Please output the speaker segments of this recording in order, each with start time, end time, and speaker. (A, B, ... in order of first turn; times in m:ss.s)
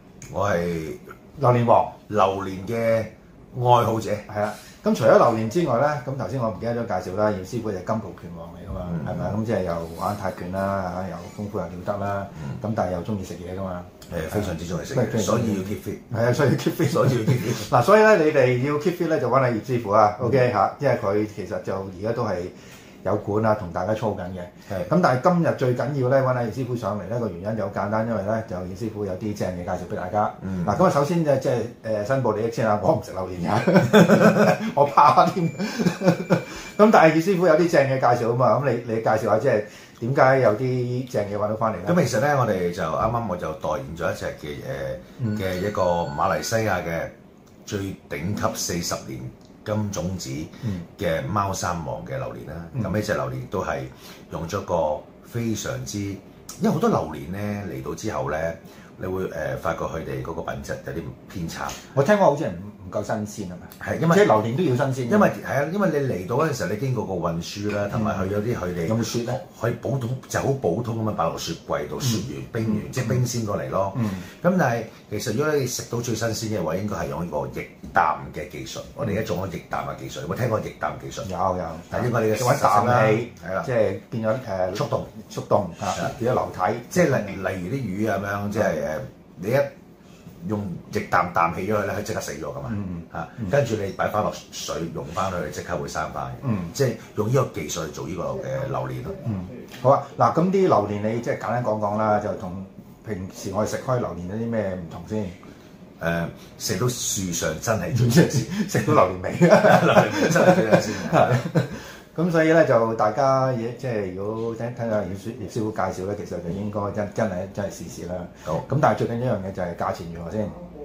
0:00.2-0:01.0 A
0:01.4-0:02.0 B
0:02.1-0:04.3 A
0:04.3-0:42.0 B
0:14.1-0:16.0 A
0:16.9-0:17.7 A
0:30.5-0:30.7 A
0:41.8-0:47.1 A
0:47.6-1:01.8 A
1:01.8-1:05.3 B
1:03.8-1:04.3 A
1:05.0-1:21.3 A
1:07.9-1:08.3 B
1:08.8-1:09.4 B
1:21.2-1:27.4 B
1:21.9-1:23.7 A
1:24.7-1:25.1 A
1:26.9-1:29.7 A
1:30.4-1:39.3 A
1:32.7-1:33.4 B
1:39.2-1:45.3 B
1:46.0-1:48.5 A
1:48.0-2:00.5 B
1:49.6-1:51.4 A